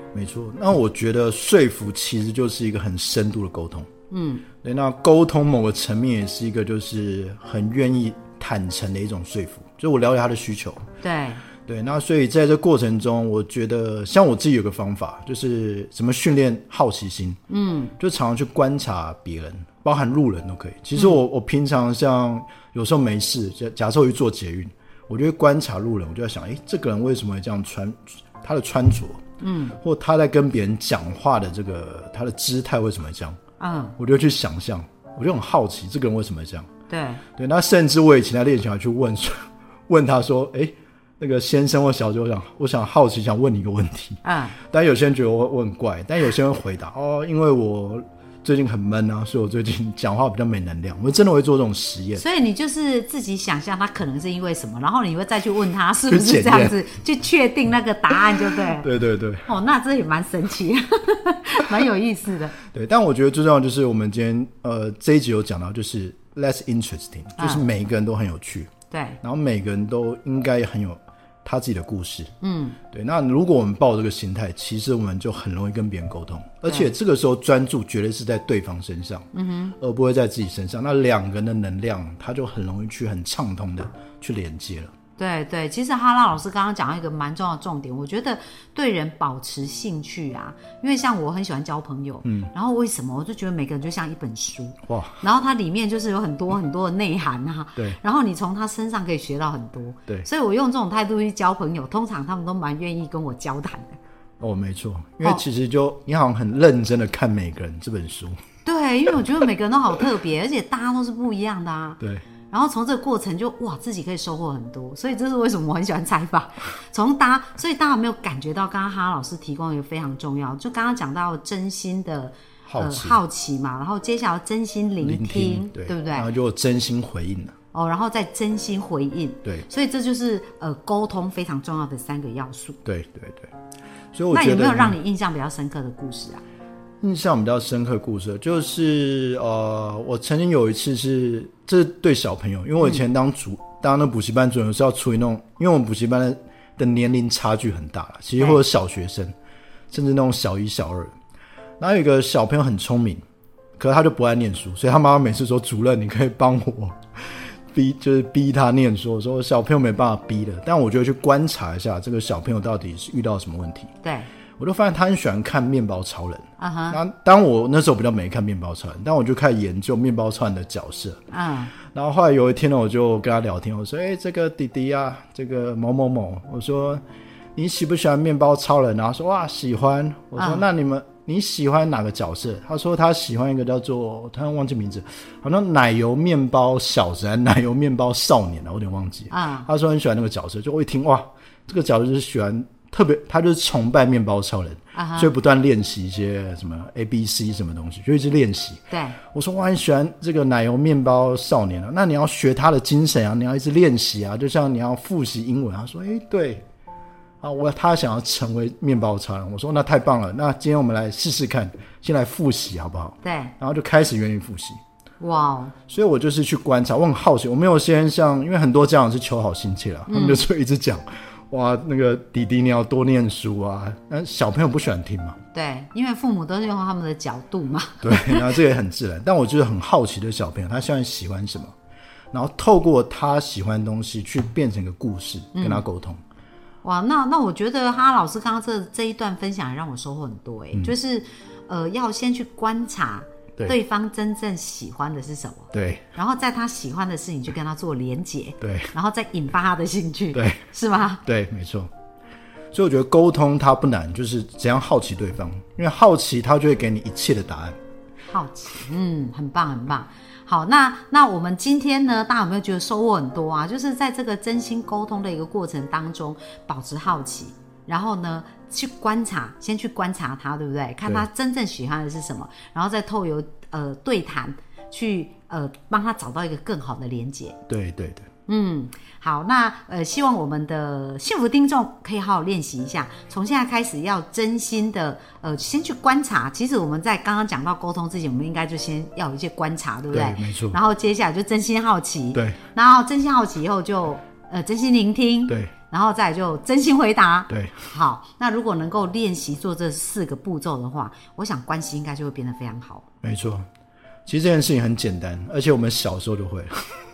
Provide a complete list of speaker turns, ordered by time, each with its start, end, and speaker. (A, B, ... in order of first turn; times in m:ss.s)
0:00.1-0:03.9 A
0:04.1-0:04.4 B
0:04.6-0:10.8 A
0:11.0-0:11.4 B
0:11.7-0:17.4 A
0:17.5-0:17.9 B
0:18.0-0:29.2 A
0:29.4-0:29.8 B
0:29.8-0:33.4 A
0:33.6-0:34.0 B
0:34.0-0:36.7 A
0:36.9-0:37.2 B
0:37.4-0:52.2 A
0:44.2-0:44.6 B
0:52.2-0:58.9 B
0:56.1-0:56.8 A
0:58.7-0:59.5 A
0:59.4-1:02.6 B
1:02.7-1:08.7 A
1:07.4-1:07.6 B
1:08.9-1:09.2 B
1:09.2-1:12.3 A
1:12.4-1:12.8 B
1:12.9-1:19.3 A
1:19.3-1:19.8 B
1:19.8-1:24.9 A
1:25.2-1:44.0 B
1:32.2-1:32.5 A
1:34.9-1:35.2 A
1:44.4-1:48.4 A
1:48.6-2:06.3 B
2:02.6-2:03.2 A
2:05.0-2:07.5 A
2:07.7-2:12.8 B
2:12.8-2:13.5 A
2:14.1-2:15.0 A
2:14.3-2:16.4 B
2:17.0-2:29.3 A
2:28.4-2:28.6 B
2:29.9-2:31.1 A
2:31.8-2:33.2 A
2:33.8-2:43.9 A
2:44.0-2:44.3 B
2:44.6-2:51.2 A
2:46.6-2:47.0 B
2:51.3-2:51.7 B
2:51.9-2:57.0 A
2:57.5-3:18.8 A
3:00.4-3:00.6 B
3:09.3-3:09.7 B
3:14.9-3:15.3 B
3:18.9-3:19.2 B
3:19.3-3:26.6 A
3:27.4-3:34.8 A
3:33.2-3:33.5 B
3:35.2-3:35.7 B
3:35.9-3:45.4 A
3:40.1-3:40.4 B
3:45.5-3:48.6 B
3:48.0-3:51.7 A
3:52.3-3:56.2 A
3:55.5-3:55.8 B
3:56.8-4:11.2 B
4:05.7-4:06.0 A
4:08.6-4:08.9 A
4:10.3-4:10.6 A
4:11.2-4:11.9 A
4:12.7-4:17.8 A
4:18.3-4:37.6 B
4:37.7-4:38.3 A
4:38.5-5:03.0 B
4:50.1-4:50.8 A
4:57.5-4:57.9 A
5:03.2-5:03.6 A
5:04.2-5:06.9 A